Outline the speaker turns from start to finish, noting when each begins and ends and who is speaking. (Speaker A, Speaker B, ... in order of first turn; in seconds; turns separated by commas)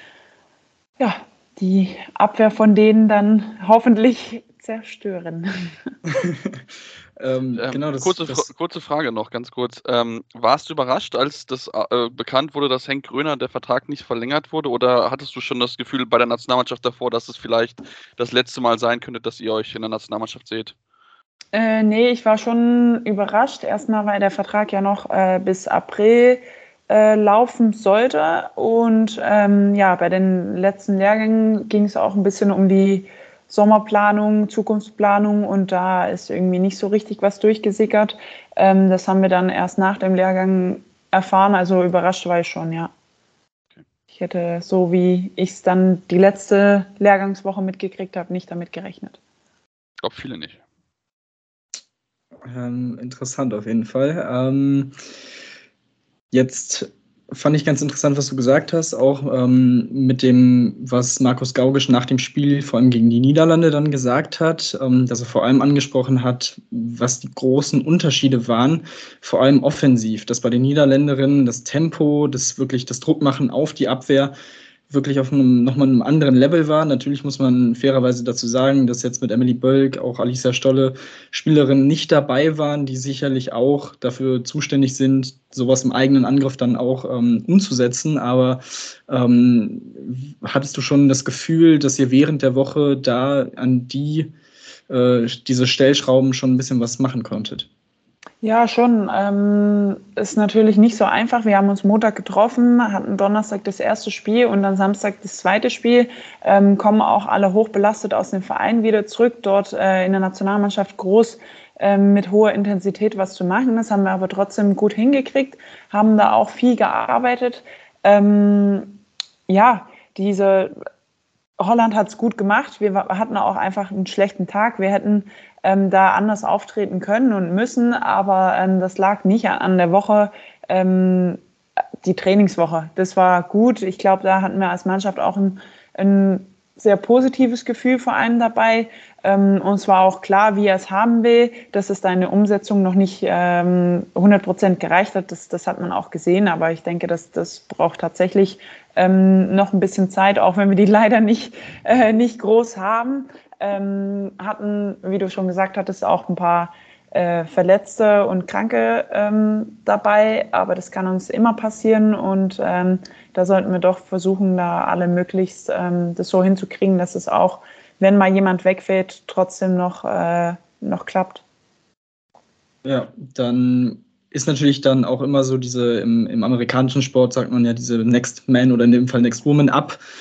Speaker A: 1.0-5.7, Speaker B: 6.1-6.6, Speaker B: 7.2-8.5, Speaker C: 7.6-20.7, Speaker A: 21.5-42.9, Speaker A: 44.1-49.2, Speaker C: 50.0-50.6, Speaker B: 52.4-54.9, Speaker B: 56.3-74.3, Speaker B: 74.9-94.3, Speaker B: 94.9-97.7, Speaker A: 98.4-120.7, Speaker A: 121.6-131.4, Speaker A: 132.0-171.4, Speaker B: 172.8-180.0